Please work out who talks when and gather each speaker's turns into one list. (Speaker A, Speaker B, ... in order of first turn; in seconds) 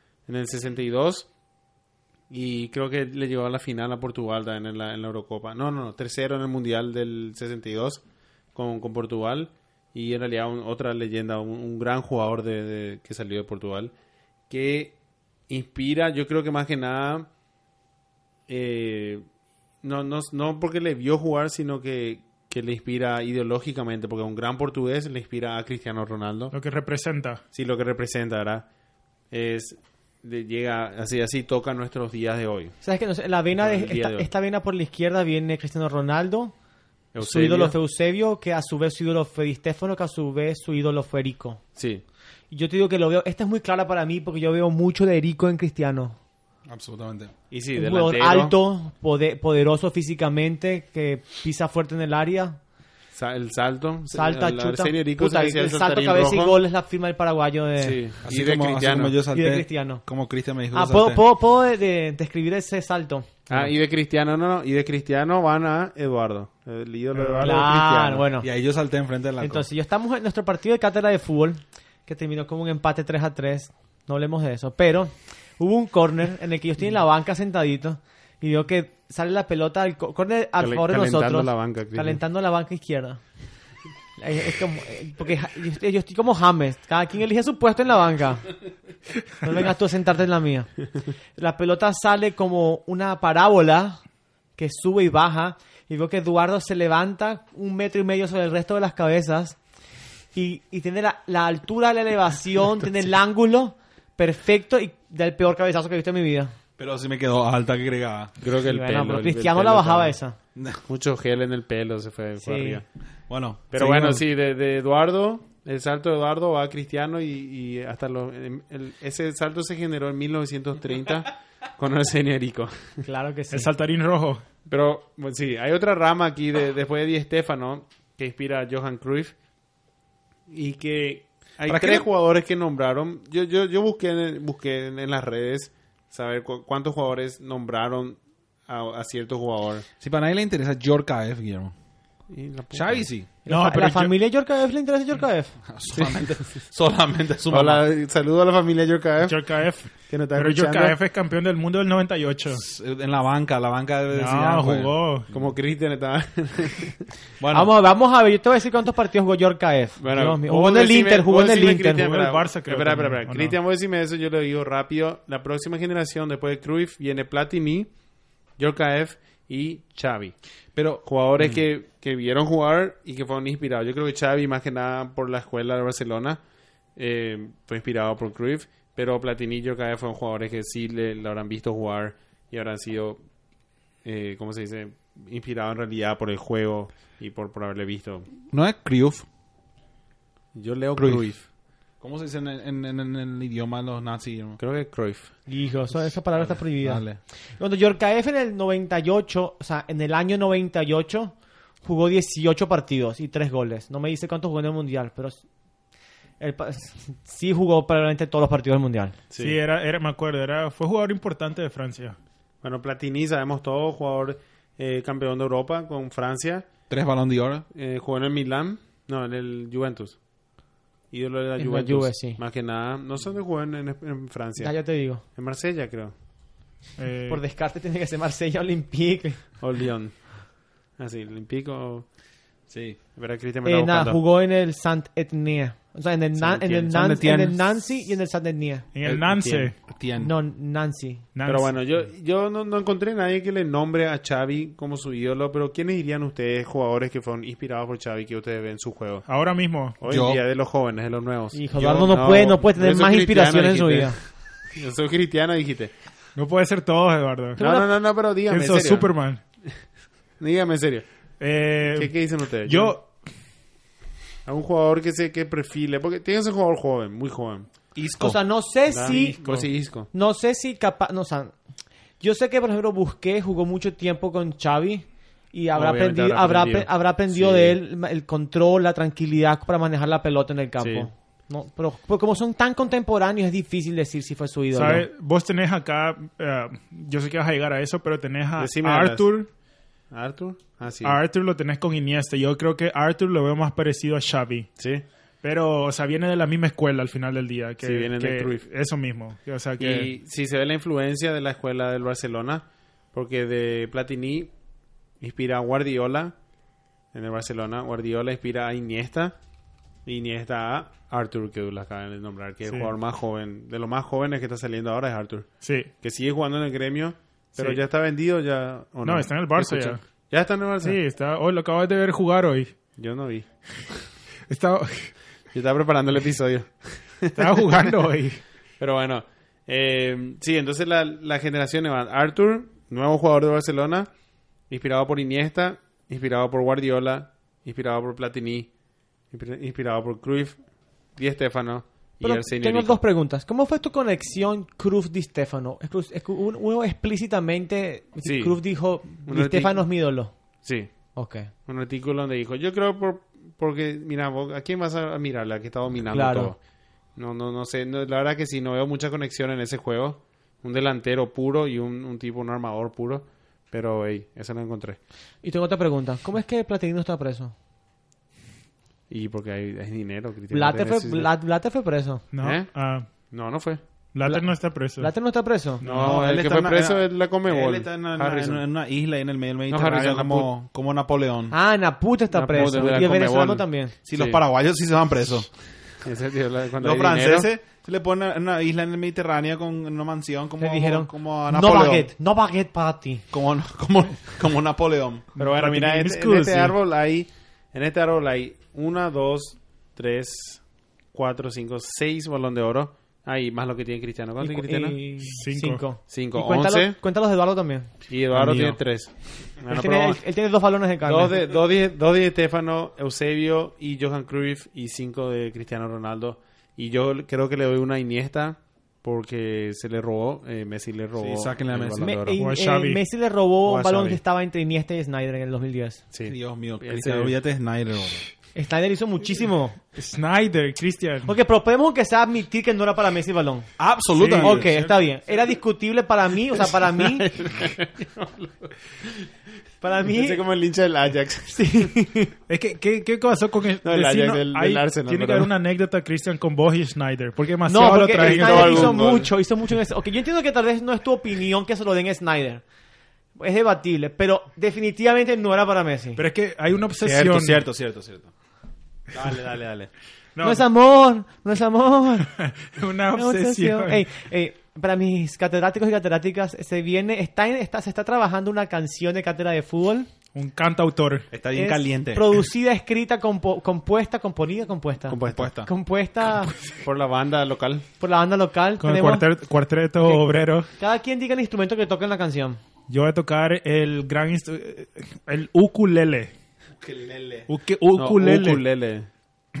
Speaker A: 0.3-1.3, 2.3-8.0, 8.5-13.9, 14.5-14.9, 15.5-17.3, 18.5-19.2, 19.8-26.5, 27.5-28.7, 29.3-32.8, 33.6-34.3, 37.1-37.7, 41.8-42.0, 47.5-48.5, 53.1-56.6, 57.8-59.2, 63.5-68.3, 80.6-82.2, 108.4-110.1, 110.9-112.8, 113.7-123.0, 124.7-129.3, 130.5-139.8, 142.3-143.0, 145.9-146.2, 147.5-149.5, 150.0-150.9, 155.3-157.1, 160.0-167.9, 168.6-170.3, 171.0-176.4, 176.9-183.2, 184.0-188.3, 190.5-191.4, 194.6-195.3, 209.3-209.6, 212.6-216.7, 217.7-220.2, 221.1-226.1, 229.6-232.1, 233.1-234.2, 241.4-249.2, 250.0-255.9, 257.6-259.1, 260.4-261.1, 261.8-263.0, 264.4-267.7, 268.9-270.1, 275.7-277.8, 280.8-281.1, 288.6-289.3, 290.1-291.2, 294.8-295.0, 297.8-298.6, 299.8-304.5, 305.2-306.4, 307.1-309.4, 310.1-321.0, 323.0-323.5, 325.5-327.9, 328.8-334.1, 334.7-338.7, 339.3-340.6, 341.1-343.0, 348.2-348.6, 349.1-349.9, 350.6-350.9, 351.6-356.6, 357.1-365.0, 369.1-371.3, 372.4-373.8, 375.8-378.6, 379.7-380.5, 382.3-384.4, 386.0-387.5, 395.4-400.6, 401.1-405.0, 406.1-407.0, 408.1-410.2, 411.0-422.4, 423.6-424.2, 426.1-427.4, 437.0-439.3, 440.1-441.9, 443.8-445.5, 448.1-449.3, 475.1-475.5, 476.7-477.9, 487.9-489.1
Speaker B: 26.5-27.4, 67.1-67.6, 123.5-124.4, 143.5-144.1, 149.2-152.6, 154.1-155.3, 161.9-163.6, 209.4-212.2, 227.0-227.4, 238.9-239.7, 241.3-241.8, 249.2-250.0, 256.4-257.6, 258.5-259.4, 261.4-263.1, 269.1-269.6, 284.7-289.5, 291.0-294.7, 295.4-300.1, 312.6-312.9, 315.6-315.9, 319.0-320.0, 320.8-322.7, 324.5-325.1, 327.4-328.4, 372.3-373.1, 374.1-375.1, 375.8-376.1, 395.4-396.8, 405.2-405.8, 408.3-408.8, 422.4-423.0, 429.9-431.3, 434.2-434.6, 442.5-449.0, 456.2-457.6, 460.4-460.6, 462.4-464.0, 470.3-471.3, 478.8-480.7, 482.9-486.3, 487.5-488.6
Speaker C: 32.8-36.5, 37.2-41.6, 42.5-46.2, 47.7-52.6, 54.1-58.0, 59.3-60.0, 60.7-63.5, 67.4-68.5, 69.4-83.2, 84.2-88.5, 89.4-90.8, 91.3-94.0, 94.5-99.6, 100.3-106.5, 108.6-110.4, 112.4-112.8, 123.0-123.7, 143.4-145.6, 157.5-162.1, 195.5-205.4, 206.4-209.2, 221.6-222.4, 224.6-225.2, 227.3-229.5, 233.6-238.9, 240.2-241.2, 251.5-254.2, 257.6-257.9, 268.2-271.5, 272.2-285.1, 342.2-350.3, 351.1-351.5, 356.1-356.5, 365.4-367.5, 370.5-372.2, 374.2-375.8, 381.5-383.9, 390.6-393.2, 404.4-407.9, 409.7-411.3, 422.0-426.0, 428.5-429.8, 431.2-433.7, 434.4-437.3, 439.8-440.4, 441.5-442.3, 447.7-452.6, 453.4-456.2, 460.4-462.3, 463.1-470.1, 471.5-476.5, 478.0-479.3, 480.0-482.6
Speaker D: 46.7-47.3, 58.2-61.2, 68.4-69.7, 106.8-108.3, 110.5-110.8, 113.3-114.2, 131.7-132.1, 140.0-141.7, 142.7-143.3, 145.7-147.8, 152.5-155.4, 157.4-157.7, 170.7-171.6, 188.5-189.2, 191.0-191.2, 192.0-194.6, 196.3-197.2, 216.9-217.7, 232.7-233.0, 236.4-238.1, 239.0-240.3, 250.1-250.4, 267.9-268.4, 375.8-381.5, 384.1-385.5, 386.8-392.1, 393.3-395.2, 421.1-422.3, 426.2-428.2, 433.8-434.8, 457.0-458.3, 459.1-459.9, 471.3-472.4, 475.3-475.7, 486.8-487.5